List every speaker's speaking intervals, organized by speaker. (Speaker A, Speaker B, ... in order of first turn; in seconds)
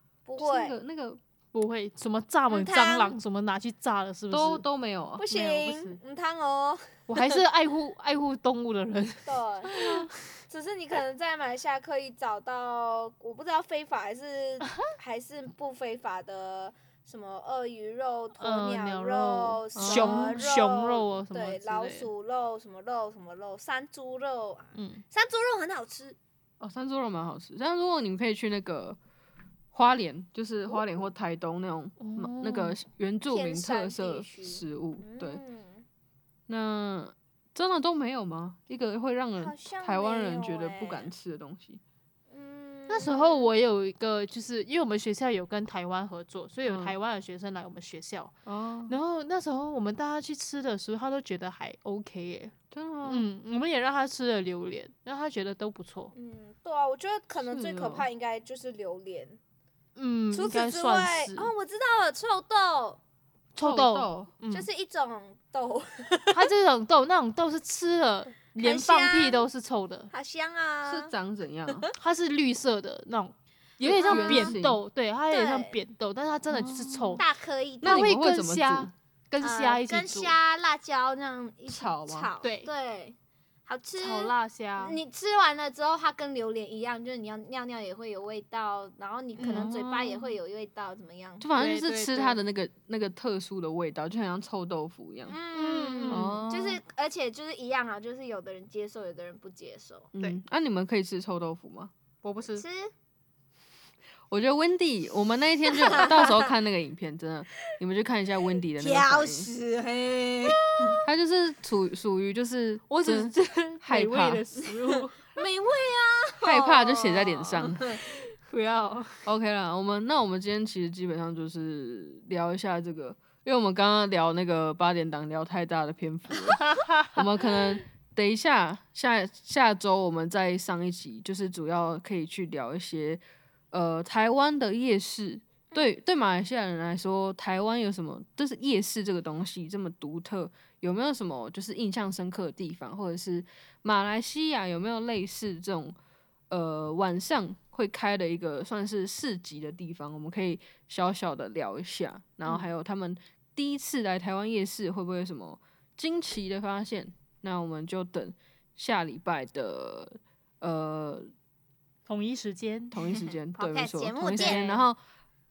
Speaker A: 0.2-0.8, 2.5-3.1, 5.2-7.0, 9.2-9.7, 10.5-26.2, 33.3-35.9, 39.4-41.1, 42.3-43.5, 56.1-59.4, 60.3-63.0, 64.5-66.5, 68.6-69.5, 70.1-71.1, 73.8-74.5, 75.3-75.8, 77.2-78.1, 79.4-91.5, 95.2-100.1, 102.5-102.9, 105.8-106.4, 108.8-111.0, 114.9-118.1, 163.1-164.6
Speaker B: 0.4-1.2, 4.3-5.2, 19.8-20.4, 26.6-29.0, 29.7-35.4, 36.5-41.8, 46.6-47.0, 48.5-49.0, 52.7-53.2, 57.5-58.0, 63.6-64.3, 70.9-71.8, 73.9-74.8, 76.5-77.2, 77.8-78.9, 81.7-82.3, 89.4-90.3, 91.4-95.3, 96.1-96.8, 100.1-101.9, 104.3-109.5, 111.0-114.4, 116.4-118.0, 119.2-145.9, 146.5-161.3, 162.9-165.0
Speaker C: 1.5-4.6, 5.3-6.0, 7.1-10.1, 18.4-22.1, 24.7-25.0, 32.0-32.8, 42.9-48.3, 48.9-52.5, 53.0-56.1, 60.0-61.5, 63.5-64.7, 66.3-70.1, 72.0-77.2, 77.9-80.3, 82.4-82.7, 84.0-85.0, 91.5-92.4, 95.5-96.3, 102.2-102.6, 112.9-115.3, 118.4-119.2, 126.8-127.1, 162.1-162.9, 164.3-164.9